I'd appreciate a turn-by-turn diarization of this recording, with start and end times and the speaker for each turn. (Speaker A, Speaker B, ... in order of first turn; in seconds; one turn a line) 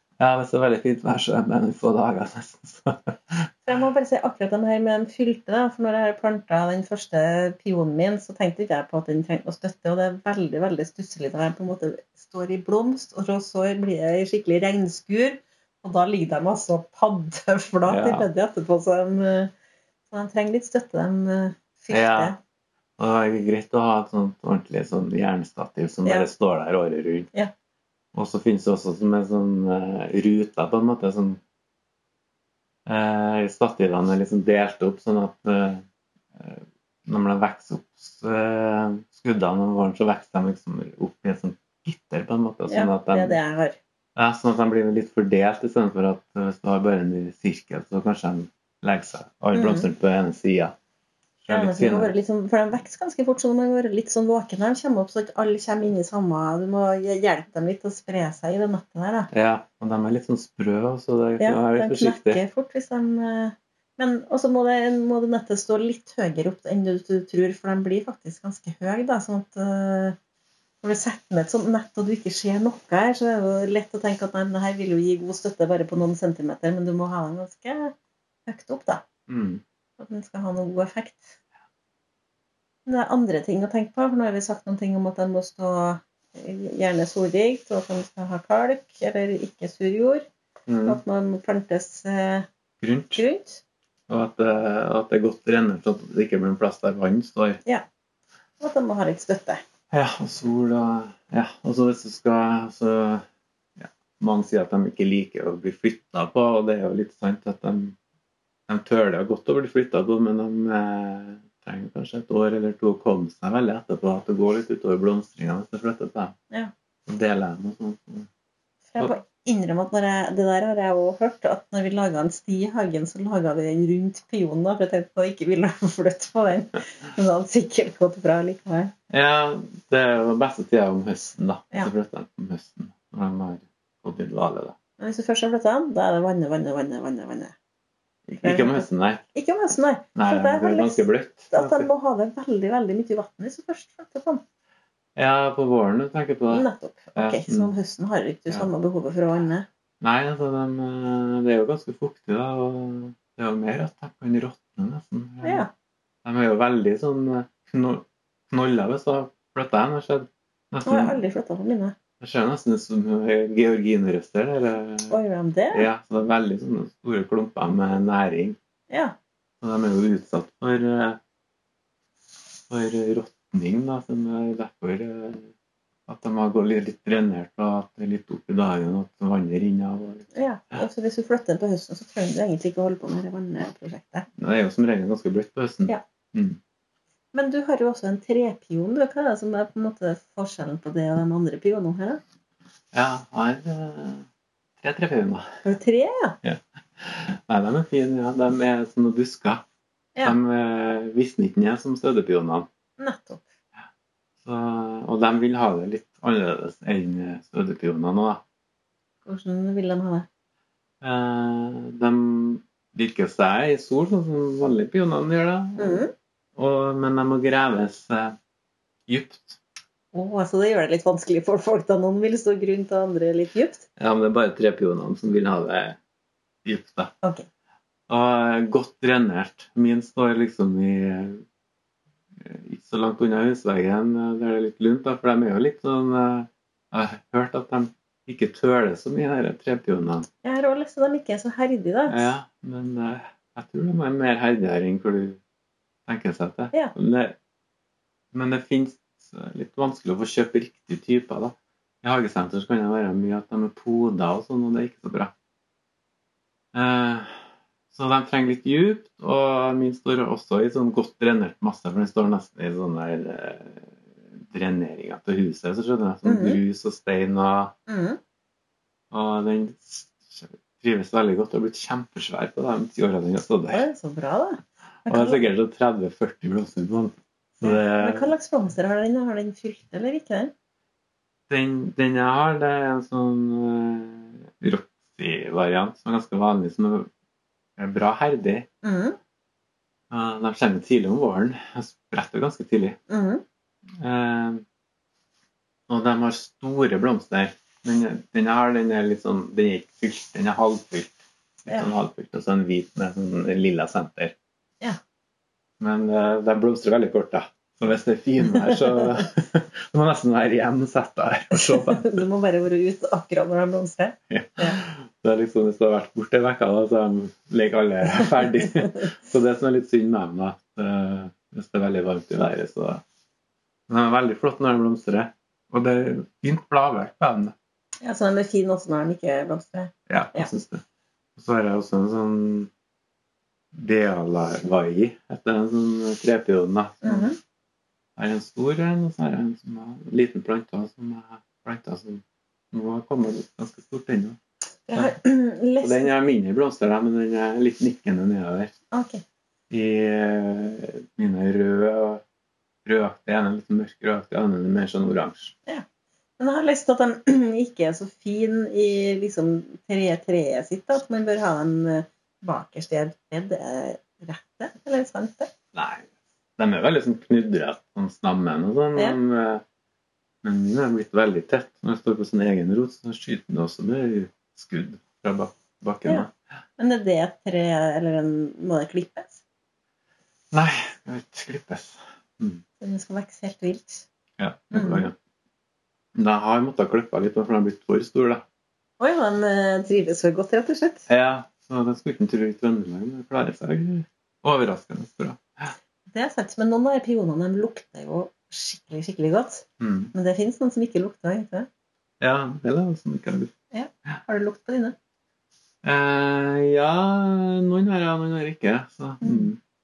Speaker A: 0.2-3.4
Speaker B: 3.7-19.5
Speaker A: 17.9-18.3
Speaker B: 20.1-22.4
Speaker A: 21.9-22.4
Speaker A: 23.0-27.3
Speaker A: 28.1-31.4
Speaker A: 32.9-35.8
Speaker A: 36.4-43.4
Speaker B: 42.7-43.8
Speaker A: 44.2-50.7
Speaker B: 49.5-49.9
Speaker A: 51.5-52.1
Speaker B: 51.5-59.3
Speaker A: 59.3-62.4
Speaker B: 61.4-70.2
Speaker B: 70.8-77.9
Speaker B: 78.5-79.0
Speaker A: 79.3-79.6
Speaker B: 80.0-81.4
Speaker B: 82.9-90.2
Speaker A: 90.7-91.0
Speaker B: 90.8-92.5
Speaker A: 92.8-93.2
Speaker B: 93.2-93.6
Speaker A: 94.1-97.6
Speaker B: 98.6-99.6
Speaker A: 99.9-103.2
Speaker A: 103.8-108.0
Speaker A: 108.7-116.3
Speaker A: 117.1-118.3
Speaker B: 118.9-128.9
Speaker A: 129.1-134.8
Speaker B: 135.0-137.5
Speaker A: 138.3-139.2
Speaker B: 138.4-144.4
Speaker A: 140.2-141.9
Speaker A: 145.2-147.7
Speaker B: 146.5-149.7
Speaker A: 150.0-155.7
Speaker B: 155.4-155.7
Speaker A: 156.2-161.2
Speaker B: 160.9-161.9
Speaker A: 162.2-165.2
Speaker B: 165.1-165.9
Speaker A: 165.7-168.6
Speaker B: 168.9-169.2
Speaker A: 169.6-171.2
Speaker A: 172.7-175.5
Speaker A: 176.1-180.3
Speaker B: 180.3-184.3
Speaker A: 184.4-186.6
Speaker B: 187.3-192.2
Speaker A: 192.9-194.3
Speaker A: 194.8-195.5
Speaker B: 195.7-196.3
Speaker A: 196.4-199.6
Speaker A: 200.2-202.7
Speaker B: 203.0-203.4
Speaker A: 204.4-208.4
Speaker B: 209.2-210.3
Speaker A: 211.0-216.0
Speaker B: 215.8-216.1
Speaker A: 216.6-218.3
Speaker A: 219.1-219.6
Speaker B: 220.1-223.8
Speaker A: 224.0-226.0
Speaker A: 226.7-227.1
Speaker A: 228.1-231.4
Speaker A: 232.4-240.3
Speaker B: 240.4-242.3
Speaker A: 242.1-245.4
Speaker A: 246.1-247.4
Speaker A: 248.3-255.3
Speaker A: 256.7-267.7
Speaker B: 266.2-266.6
Speaker B: 267.9-268.2
Speaker A: 269.1-273.9
Speaker B: 273.7-275.5
Speaker A: 275.1-278.3
Speaker B: 277.6-280.5
Speaker A: 281.5-287.1
Speaker A: 287.8-288.7
Speaker B: 288.8-289.2
Speaker A: 290.1-293.0
Speaker B: 293.1-293.4
Speaker A: 294.0-294.6
Speaker A: 295.9-304.3
Speaker A: 305.8-312.2
Speaker B: 311.6-314.8
Speaker A: 314.3-323.0
Speaker A: 323.9-327.5
Speaker B: 328.0-330.5
Speaker A: 330.1-330.8
Speaker A: 331.4-332.7
Speaker A: 333.8-337.3
Speaker B: 337.0-337.4
Speaker A: 338.2-344.4
Speaker B: 344.9-346.1
Speaker A: 345.8-348.7
Speaker B: 348.9-349.2
Speaker A: 349.7-352.2
Speaker A: 352.9-355.5
Speaker B: 356.4-365.5
Speaker A: 365.7-369.6
Speaker A: 370.4-376.3
Speaker B: 376.8-379.4
Speaker A: 380.5-382.6
Speaker B: 382.8-384.1
Speaker A: 384.4-385.1
Speaker B: 384.7-385.1
Speaker A: 386.1-388.4
Speaker B: 389.0-391.1
Speaker A: 391.1-395.7
Speaker B: 396.1-401.7
Speaker A: 399.8-400.1
Speaker A: 402.2-403.5
Speaker B: 403.7-404.9
Speaker A: 405.8-409.6
Speaker B: 409.2-409.5